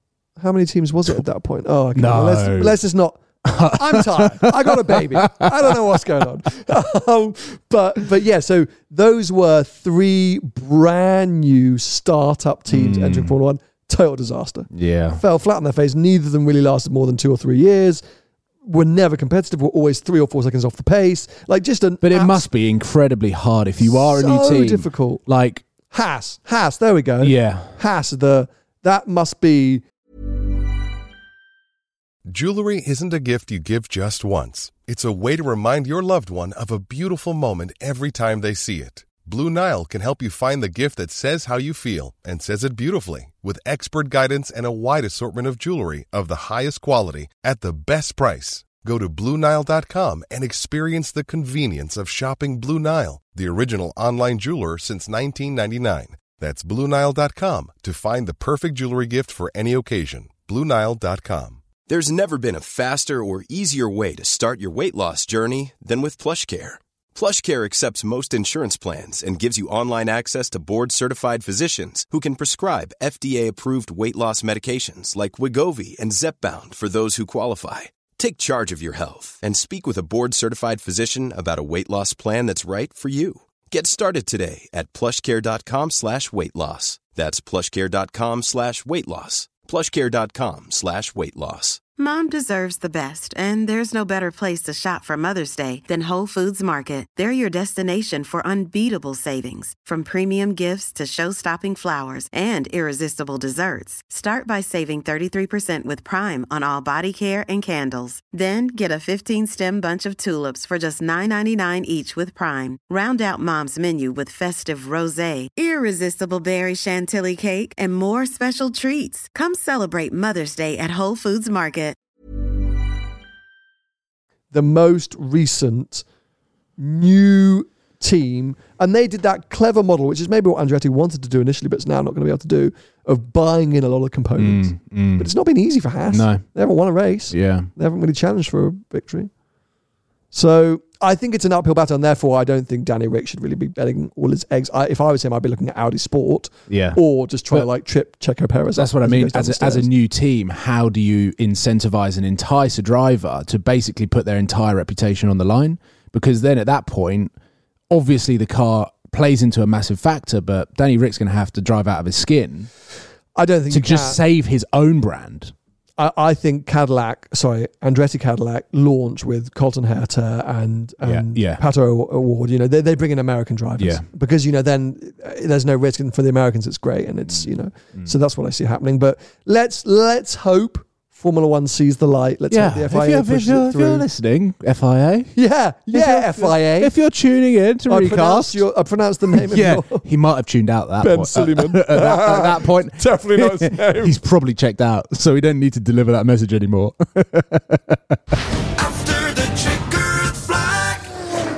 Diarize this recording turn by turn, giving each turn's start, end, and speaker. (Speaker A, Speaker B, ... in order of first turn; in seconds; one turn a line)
Speaker A: 0.4-18.0
Speaker B: 1.9-2.8
Speaker B: 3.5-6.2
Speaker B: 12.7-13.3
Speaker B: 14.7-15.2
Speaker A: 18.6-22.5
Speaker B: 22.0-25.6
Speaker A: 23.8-25.2
Speaker A: 25.9-29.9
Speaker B: 27.2-27.8
Speaker C: 32.3-61.6
Speaker D: 61.9-91.8
Speaker E: 92.0-122.0
Speaker A: 124.5-126.0
Speaker A: 126.8-139.3
Speaker B: 134.4-135.3
Speaker B: 136.1-136.4
Speaker B: 137.3-137.7
Speaker A: 140.3-149.9
Speaker B: 146.7-147.0
Speaker B: 148.8-157.3
Speaker B: 157.9-162.7
Speaker A: 163.4-164.2
Speaker B: 163.7-165.5
Speaker A: 166.0-184.1
Speaker B: 171.0-171.6
Speaker B: 173.8-174.1
Speaker B: 182.5-185.3
Speaker A: 185.3-186.9
Speaker B: 185.9-188.6
Speaker A: 187.9-190.1
Speaker B: 189.3-198.4
Speaker A: 191.0-194.2